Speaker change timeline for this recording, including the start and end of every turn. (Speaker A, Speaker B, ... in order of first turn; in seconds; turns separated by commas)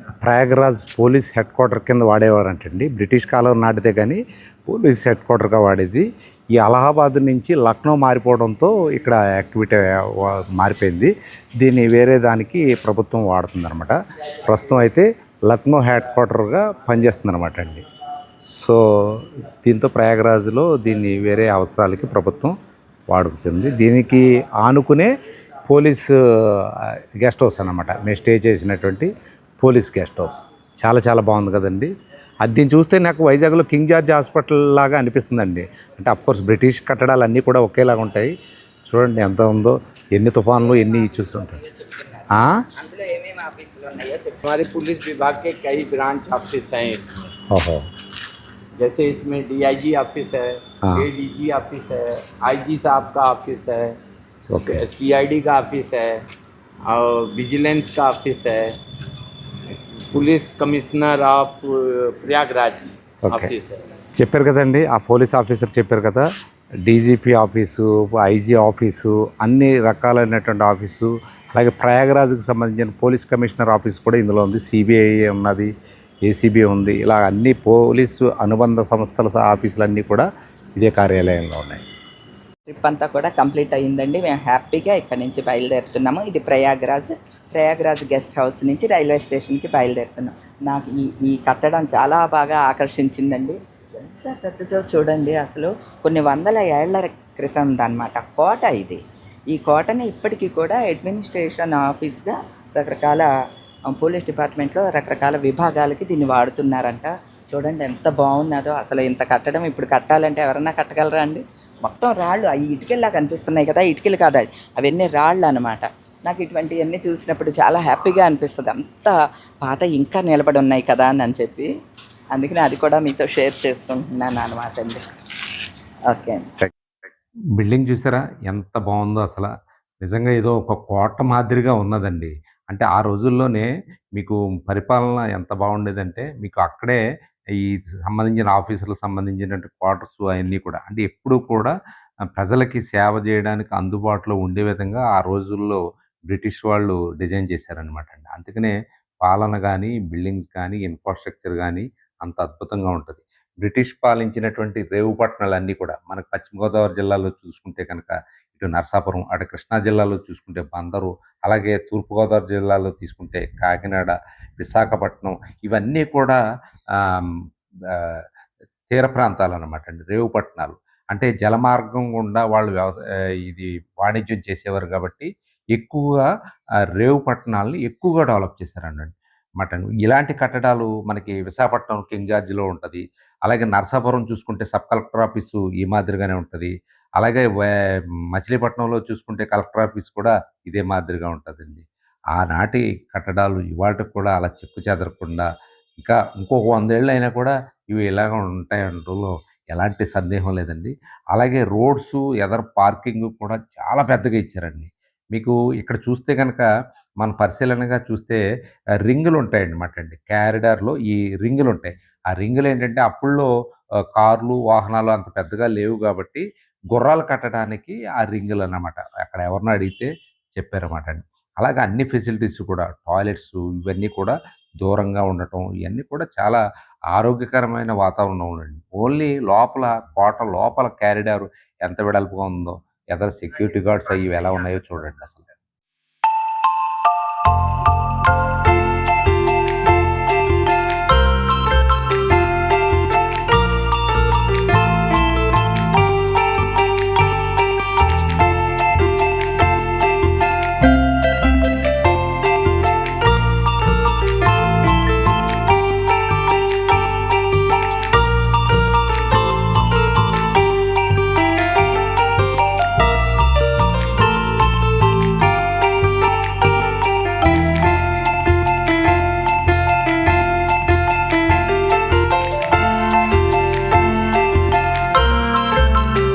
Speaker A: 0.2-17.8, Speaker A: 18.5-22.6, Speaker A: 23.1-25.1, Speaker A: 25.6-31.9, Speaker A: 32.4-38.3, Speaker A: 38.9-41.6, Speaker B: 41.8-44.4, Speaker A: 42.3-42.6, Speaker C: 44.4-47.3, Speaker A: 47.5-47.8, Speaker C: 48.8-54.0, Speaker A: 50.8-51.1, Speaker A: 54.5-54.8, Speaker C: 54.7-56.2, Speaker C: 56.9-58.8, Speaker C: 59.7-63.8, Speaker A: 63.3-63.5, Speaker A: 64.2-66.3, Speaker A: 66.8-75.7, Speaker A: 76.3-81.8, Speaker B: 82.7-99.0, Speaker B: 99.5-103.3, Speaker B: 103.9-121.7, Speaker B: 122.3-125.0, Speaker B: 126.1-126.5, Speaker A: 127.5-137.0, Speaker A: 137.6-141.8, Speaker A: 142.3-166.4, Speaker A: 166.9-168.2, Speaker A: 168.9-176.3, Speaker A: 176.9-206.7, Speaker A: 207.2-208.4, Speaker A: 209.0-213.5, Speaker A: 214.2-226.6, Speaker A: 227.1-235.5